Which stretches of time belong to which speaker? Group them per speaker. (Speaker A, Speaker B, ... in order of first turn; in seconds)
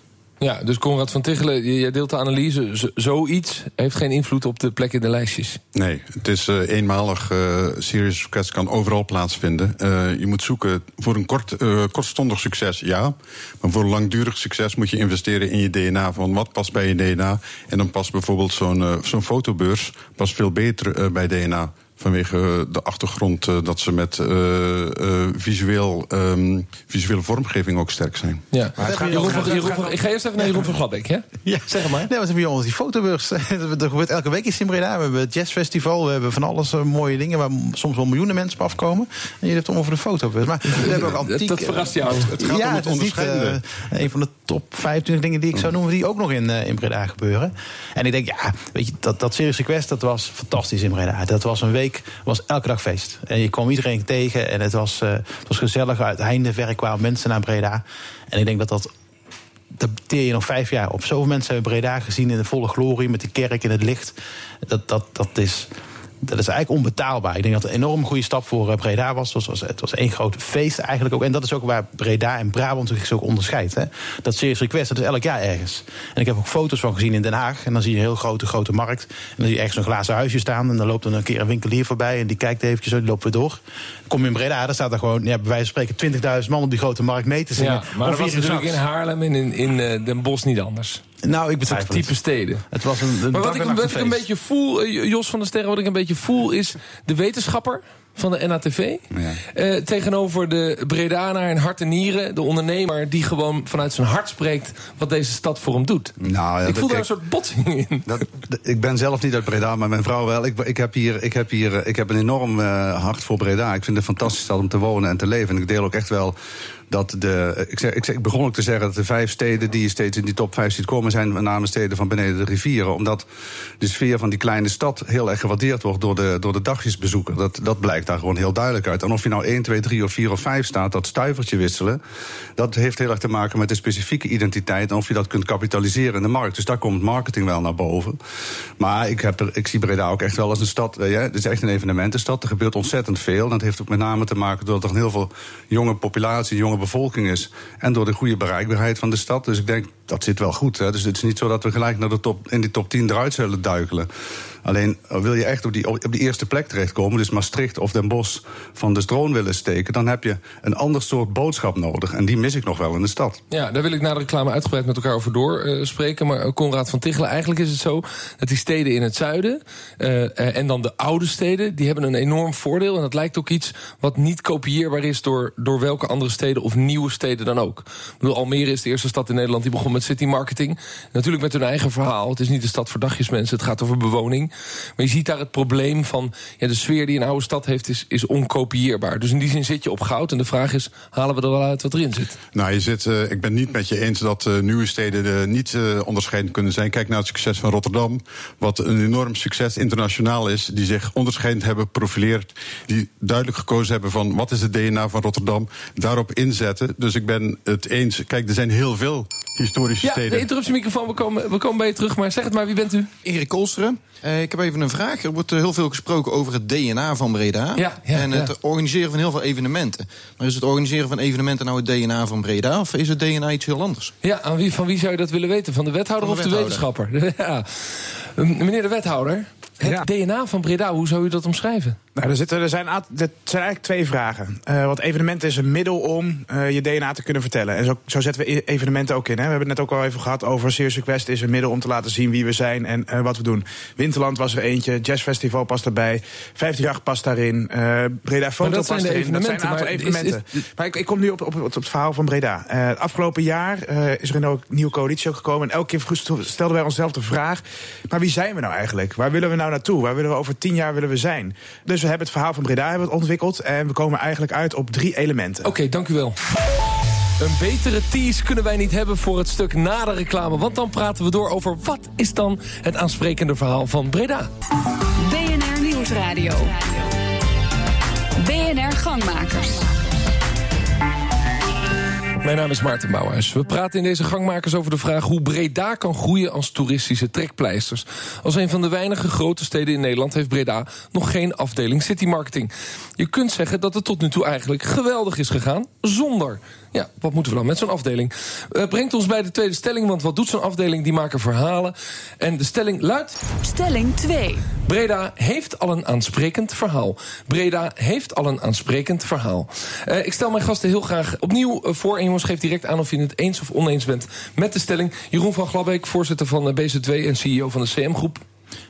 Speaker A: 0.4-5.6, 28.5-32.1, 40.8-42.3, 87.6-91.0, 91.7-92.7, 93.3-106.1, 106.7-108.1, 163.5-192.4, 210.0-213.1, 217.8-218.5, 224.2-232.0, 248.6-250.4, 265.6-266.4, 267.4-274.5, 282.4-303.4, 304.8-318.4
Speaker B: 5.8-28.4, 42.1-43.6, 192.5-210.5
Speaker C: 28.8-30.0, 232.2-265.7
Speaker D: 28.8-29.6, 31.4-58.9, 59.8-65.7, 66.2-88.8, 91.2-94.2
Speaker E: 99.1-99.4, 106.2-107.1, 108.1-116.3, 116.9-123.2, 123.8-132.0, 132.6-138.2, 138.8-154.1, 154.7-163.4
Speaker F: 213.2-224.1, 226.2-226.8
Speaker G: 275.2-277.0, 278.4-279.9, 303.6-304.7